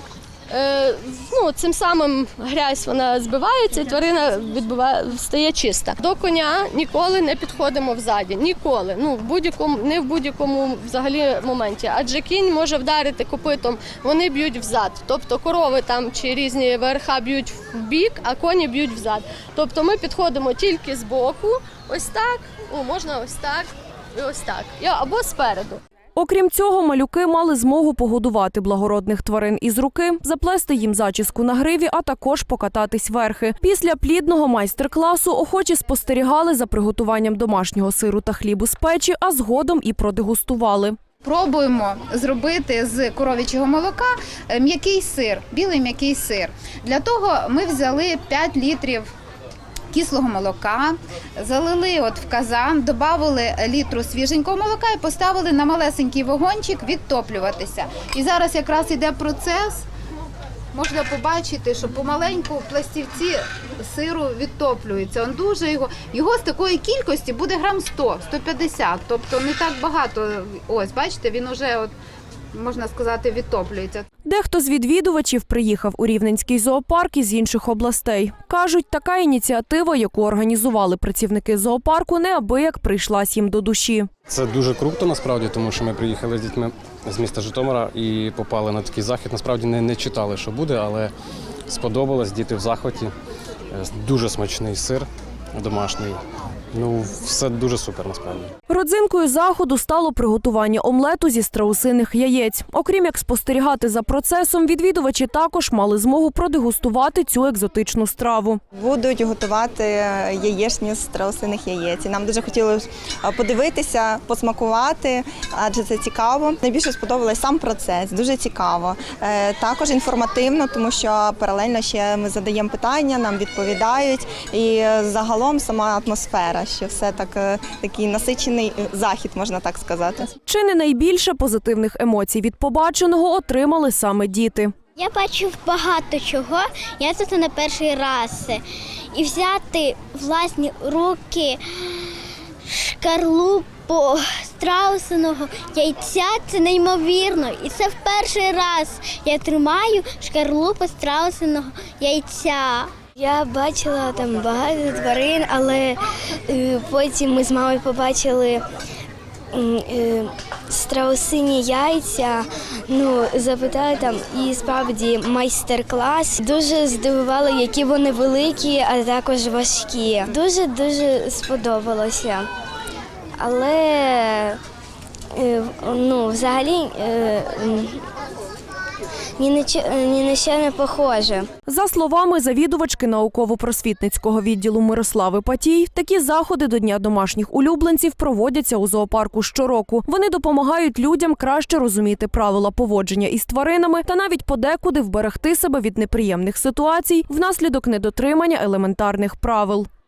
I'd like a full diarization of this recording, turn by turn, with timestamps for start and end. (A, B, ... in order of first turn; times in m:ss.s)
0:00.5-0:25.8 A
0:26.2-0:41.0 B
0:41.2-0:49.1 C
0:49.9-0:59.8 C
1:00.7-1:11.9 C
1:12.5-1:14.0 C
1:14.2-1:24.1 B
1:24.3-1:31.1 D
1:31.7-1:33.1 D
1:33.7-1:36.2 D
1:36.7-1:38.5 D
1:38.7-1:48.6 B
1:48.7-2:10.3 E
2:10.4-2:14.7 B
2:15.0-2:18.6 F
2:19.1-2:21.6 F
2:22.7-2:32.9 F
2:33.2-2:38.6 G
2:39.5-2:52.5 G
2:53.4-2:54.6 G
2:55.3-2:58.0 G
2:59.4-3:01.5 G
3:01.7-3:19.9 B